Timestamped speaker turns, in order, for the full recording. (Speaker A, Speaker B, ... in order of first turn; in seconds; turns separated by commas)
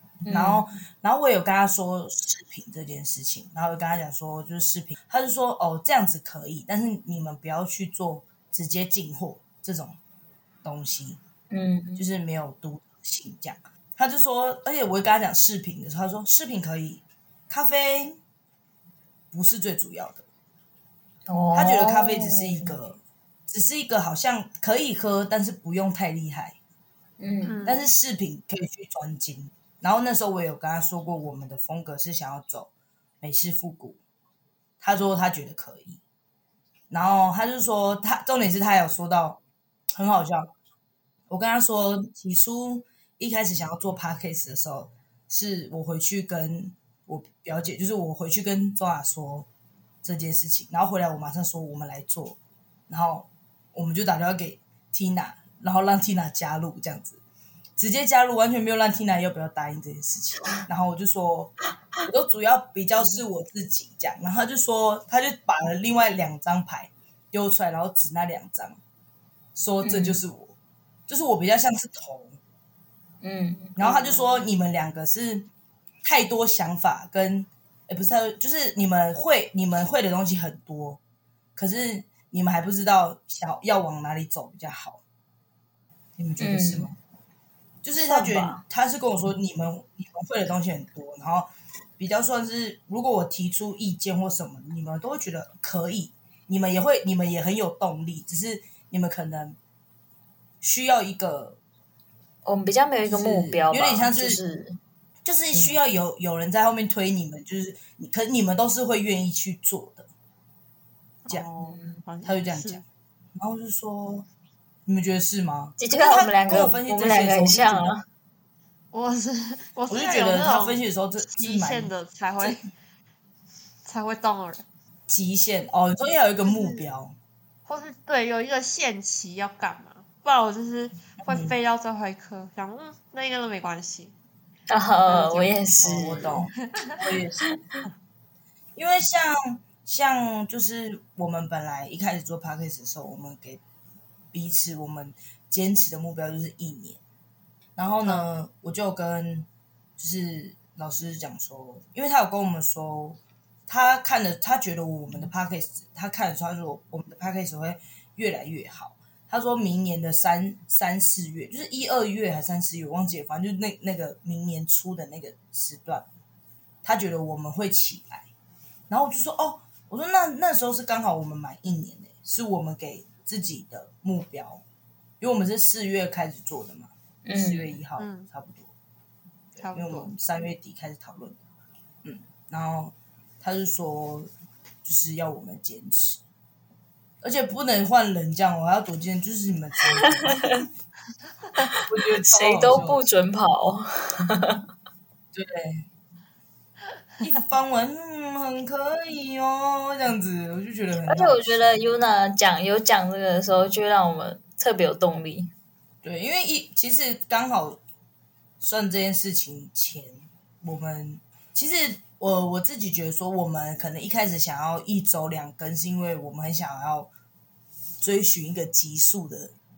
Speaker A: 0.2-0.6, Speaker B: 0.3-10.0, Speaker B: 10.6-11.2, Speaker A: 11.5-12.0, Speaker B: 11.9-18.2, Speaker B: 19.3-20.2, Speaker A: 21.3-22.7, Speaker B: 21.5-26.6, Speaker A: 27.2-27.6, Speaker C: 27.4-27.8, Speaker B: 27.6-34.0, Speaker B: 34.8-36.0, Speaker B: 36.9-39.4, Speaker B: 40.0-40.5, Speaker B: 41.3-49.5, Speaker B: 50.0-52.4, Speaker B: 52.9-57.2, Speaker B: 57.8-68.8, Speaker B: 69.5-70.5, Speaker A: 69.8-70.2, Speaker B: 71.1-72.4, Speaker A: 73.2-73.8, Speaker B: 73.8-75.5, Speaker C: 73.8-74.4, Speaker B: 76.0-81.0, Speaker B: 81.5-85.0, Speaker B: 86.2-87.0, Speaker A: 86.4-86.9, Speaker B: 87.8-99.6, Speaker A: 88.0-88.6, Speaker B: 100.6-101.6, Speaker A: 102.4-104.8, Speaker B: 103.0-104.4, Speaker B: 105.2-110.1, Speaker C: 111.2-112.8, Speaker A: 111.6-111.9, Speaker B: 112.2-112.8, Speaker B: 113.4-114.3, Speaker B: 114.8-117.9, Speaker A: 115.8-118.0, Speaker C: 118.9-122.6, Speaker B: 119.9-121.9, Speaker C: 123.8-124.6, Speaker B: 125.1-127.1, Speaker C: 126.4-126.8, Speaker C: 127.7-134.1, Speaker B: 131.2-131.6, Speaker A: 134.7-136.3, Speaker C: 135.1-135.5, Speaker B: 135.8-137.5, Speaker B: 138.7-143.6, Speaker B: 144.3-147.0, Speaker B: 147.8-166.1, Speaker C: 148.0-148.3, Speaker B: 166.8-168.3, Speaker B: 168.9-174.6, Speaker B: 175.2-178.7, Speaker A: 177.2-177.7, Speaker C: 178.0-178.3, Speaker B: 179.5-181.4, Speaker C: 179.6-180.1, Speaker B: 182.0-184.3, Speaker B: 184.8-186.2, Speaker B: 187.2-190.7, Speaker A: 190.2-190.6, Speaker A: 191.7-194.6, Speaker B: 191.8-193.0, Speaker B: 195.3-195.8, Speaker B: 197.2-201.8, Speaker A: 201.1-205.5, Speaker B: 206.0-207.8, Speaker B: 208.6-217.1, Speaker B: 218.0-219.5